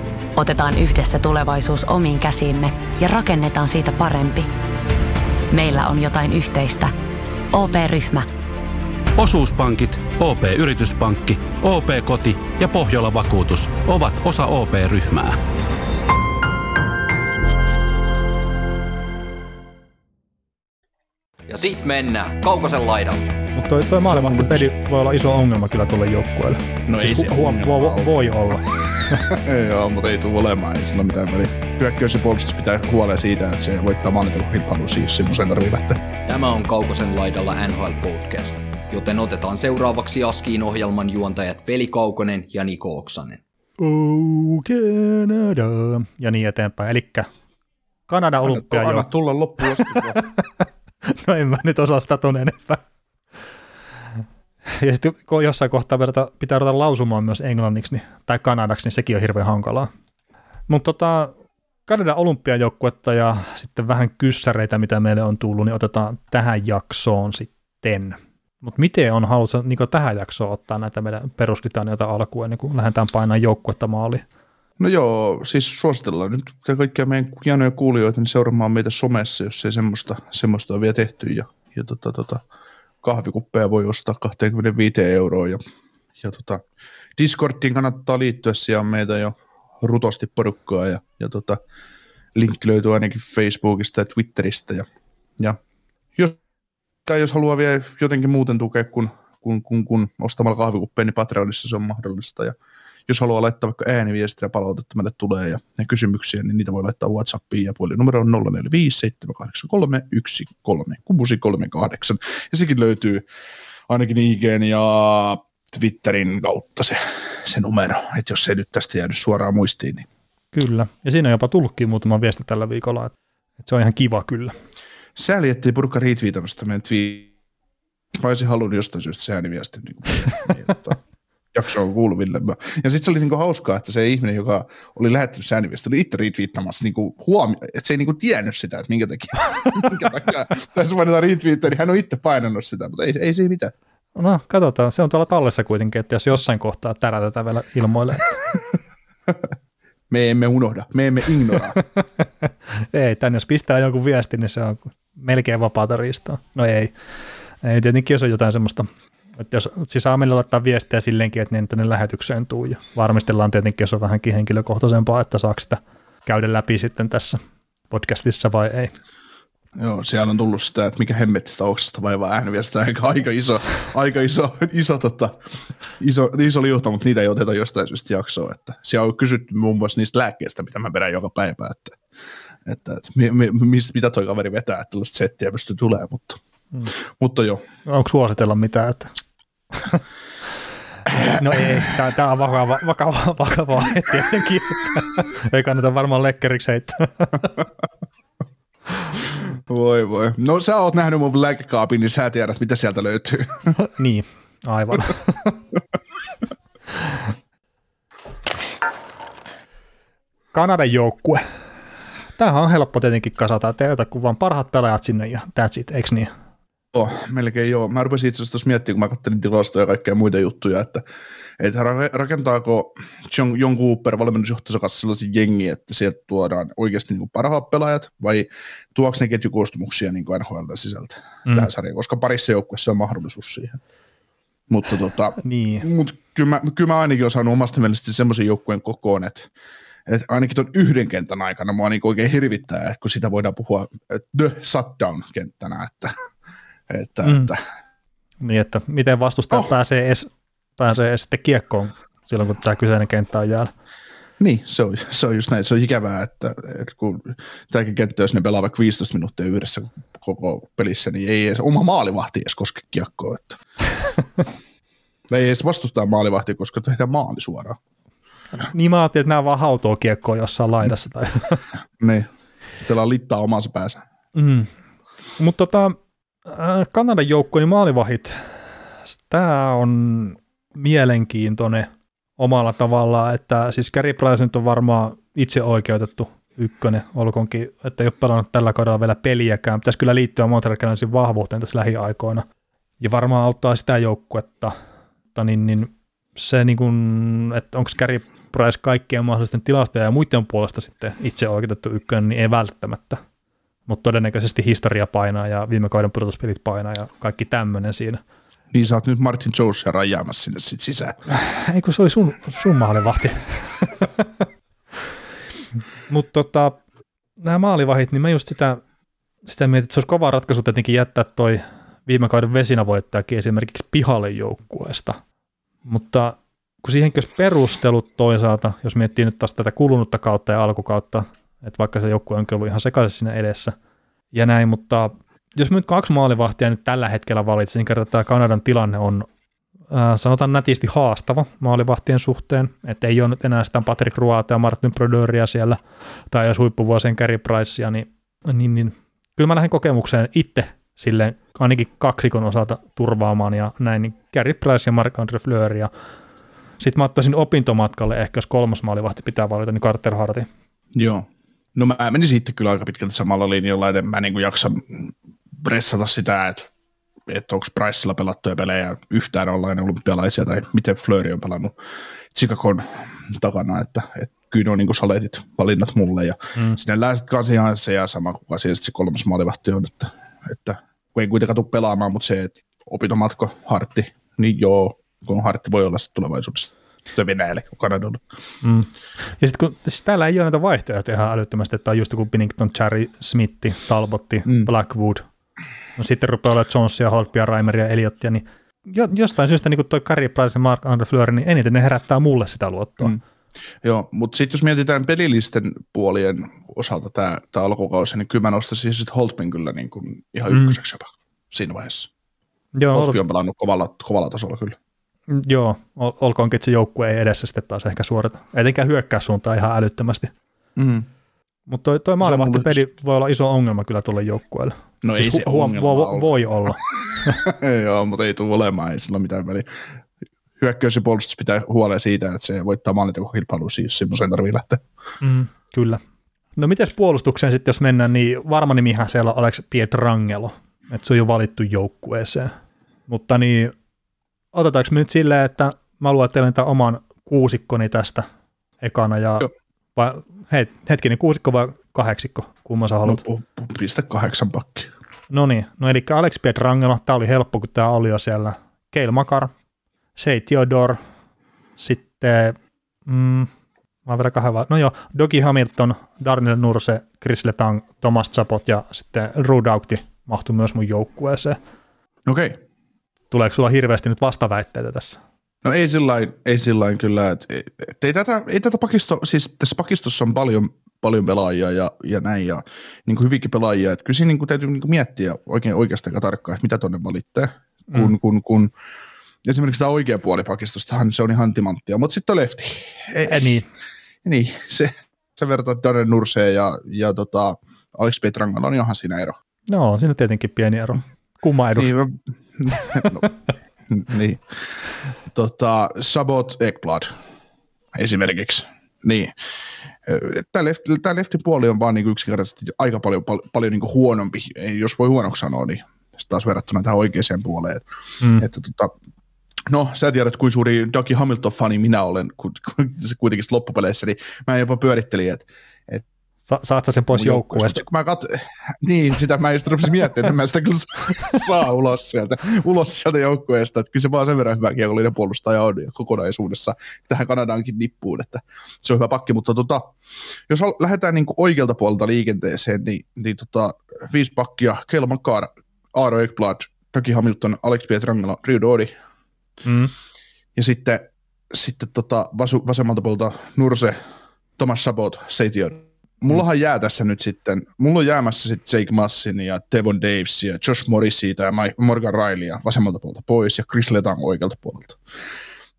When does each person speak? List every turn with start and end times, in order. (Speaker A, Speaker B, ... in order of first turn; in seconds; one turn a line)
Speaker A: 0.3-4.5
Speaker A: 5.5-6.9
Speaker A: 7.5-8.3
Speaker B: 9.2-15.4
Speaker C: 21.5-23.3
Speaker D: 23.5-29.2
Speaker E: 24.1-24.7
Speaker E: 26.9-28.6
Speaker E: 29.1-36.0
Speaker C: 36.2-43.4
Speaker D: 43.8-47.3
Speaker D: 48.1-49.1
Speaker E: 48.4-50.2
Speaker D: 50.2-50.4
Speaker D: 51.0-52.8
Speaker D: 54.7-59.9
Speaker D: 60.7-61.3
Speaker D: 61.9-74.2
Speaker E: 74.8-82.4
Speaker E: 83.0-85.6
Speaker E: 86.2-86.6
Speaker E: 87.2-91.6
Speaker E: 92.3-94.9
Speaker E: 97.0-102.5
Speaker E: 103.1-113.2
Speaker E: 113.9-120.1
Speaker D: 120.5-124.5
Speaker E: 125.2-127.3
Speaker E: 128.2-131.0
Speaker E: 131.5-143.7
Speaker D: 144.2-148.4
Speaker E: 150.1-151.8
Speaker D: 152.4-156.9
Speaker D: 157.6-167.4
Speaker D: 167.9-168.9
Speaker E: 169.8-175.4
Speaker E: 176.0-182.0
Speaker E: 182.6-186.4
Speaker E: 187.0-187.6
Speaker D: 187.8-189.1
Speaker E: 191.1-191.9
Speaker D: 191.2-197.5
Speaker E: 199.4-203.7
Speaker D: 203.8-205.6
Speaker D: 210.5-211.4
Speaker D: 212.3-216.3
Speaker E: 216.9-221.0
Speaker E: 221.6-233.8
Speaker E: 234.7-239.5
Speaker D: 235.4-235.9
Speaker E: 240.1-246.1
Speaker E: 246.9-247.6
Speaker D: 247.2-247.5
Speaker D: 248.4-253.7
Speaker E: 254.4-263.6
Speaker E: 265.3-267.8
Speaker D: 268.5-271.6
Speaker E: 272.0-272.3
Speaker E: 272.8-274.0
Speaker D: 274.3-274.7
Speaker D: 275.4-292.4
Speaker D: 293.0-294.7
Speaker D: 295.3-303.2
Speaker D: 303.9-308.2
Speaker E: 308.7-311.2
Speaker D: 311.3-314.4
Speaker D: 316.1-316.8
Speaker D: 317.4-318.8
Speaker D: 319.4-325.2
Speaker D: 325.9-333.7
Speaker D: 334.3-339.3
Speaker D: 339.9-345.8
Speaker D: 346.3-355.9
Speaker D: 356.8-360.5
Speaker E: 360.9-366.7
Speaker E: 367.3-371.7
Speaker E: 372.3-388.2
Speaker D: 388.6-395.2
Speaker E: 394.4-394.7
Speaker D: 396.0-403.2
Speaker E: 403.8-412.1
Speaker D: 410.5-410.8
Speaker D: 412.7-413.2
Speaker E: 412.9-414.8
Speaker D: 415.3-420.3
Speaker E: 420.8-421.1
Speaker D: 421.7-427.4
Speaker E: 422.2-422.8
Speaker E: 425.0-426.7
Speaker E: 427.4-429.7
Speaker E: 430.6-434.8
Speaker D: 435.2-436.0
Speaker D: 436.6-442.5
Speaker D: 443.1-443.7
Speaker D: 444.5-448.2
Speaker D: 448.8-453.2
Speaker E: 453.0-454.9
Speaker D: 455.3-459.5
Speaker D: 460.1-461.0
Speaker D: 461.8-463.5
Speaker D: 464.1-471.6
Speaker E: 472.2-472.6
Speaker D: 473.3-475.2
Speaker E: 475.6-488.7
Speaker E: 489.4-493.6
Speaker D: 493.2-493.6
Speaker E: 494.2-499.4
Speaker D: 499.7-501.9
Speaker E: 501.8-503.3
Speaker E: 503.9-504.4
Speaker E: 505.3-507.1
Speaker E: 507.9-509.3
Speaker E: 510.0-517.8
Speaker E: 518.4-518.9
Speaker E: 519.7-526.0
Speaker D: 526.5-527.8
Speaker E: 527.1-539.9
Speaker E: 540.5-548.9
Speaker D: 549.6-549.9
Speaker E: 550.5-554.0
Speaker E: 554.6-565.0